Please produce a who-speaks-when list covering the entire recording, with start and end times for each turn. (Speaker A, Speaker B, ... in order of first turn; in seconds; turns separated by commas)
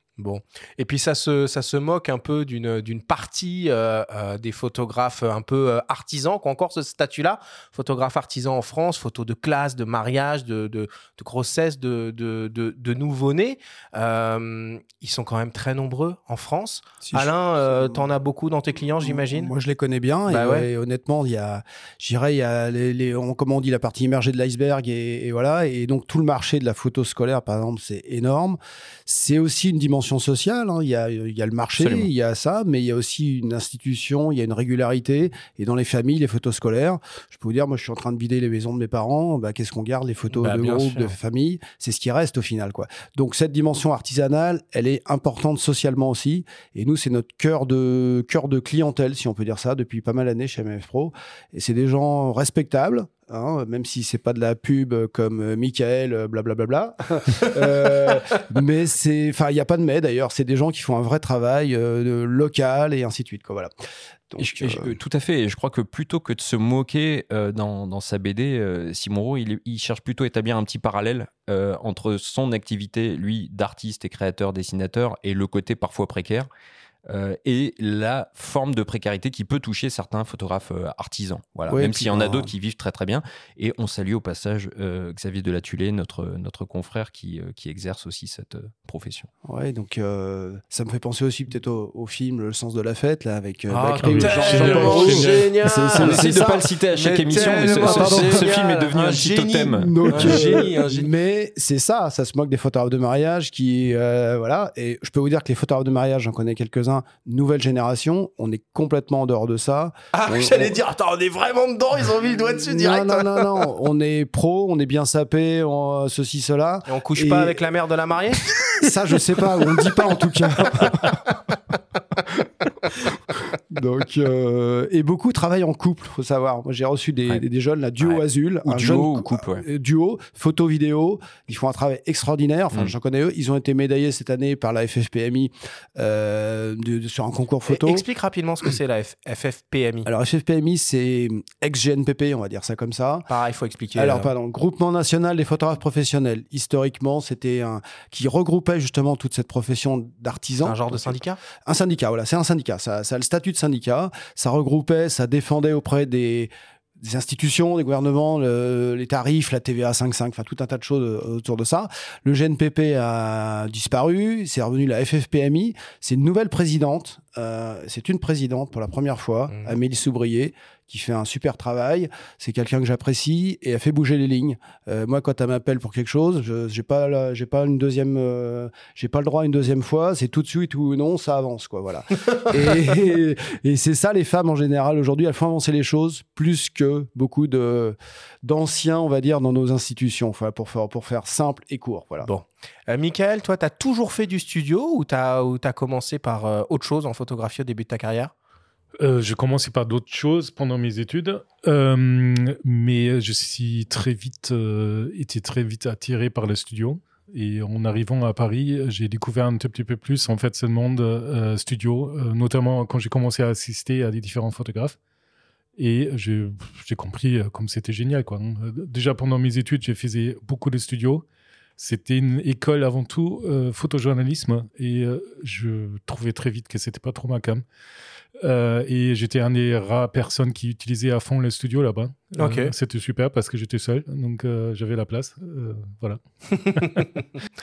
Speaker A: 0.2-19.5, Speaker B: 17.0-18.1, Speaker B: 19.0-63.7, Speaker A: 20.3-20.7, Speaker C: 31.8-32.1, Speaker A: 40.3-41.1, Speaker B: 64.3-64.9, Speaker C: 64.4-76.5, Speaker C: 77.1-89.3, Speaker B: 81.7-82.5, Speaker B: 89.5-96.6, Speaker A: 93.7-101.1, Speaker D: 93.9-95.3, Speaker C: 95.9-100.0, Speaker B: 97.3-98.5, Speaker B: 99.7-110.8, Speaker A: 110.1-113.5, Speaker B: 112.6-117.6, Speaker A: 116.9-118.5, Speaker B: 118.4-121.3, Speaker B: 122.9-138.1, Speaker C: 128.0-129.7, Speaker A: 137.7-140.1, Speaker B: 140.1-143.3, Speaker A: 143.3-144.3, Speaker B: 143.9-192.3, Speaker A: 150.6-151.4, Speaker A: 192.2-198.3, Speaker D: 199.0-215.0, Speaker D: 215.8-221.3, Speaker D: 221.8-227.7, Speaker D: 228.4-236.2, Speaker A: 232.4-232.7, Speaker A: 236.6-237.2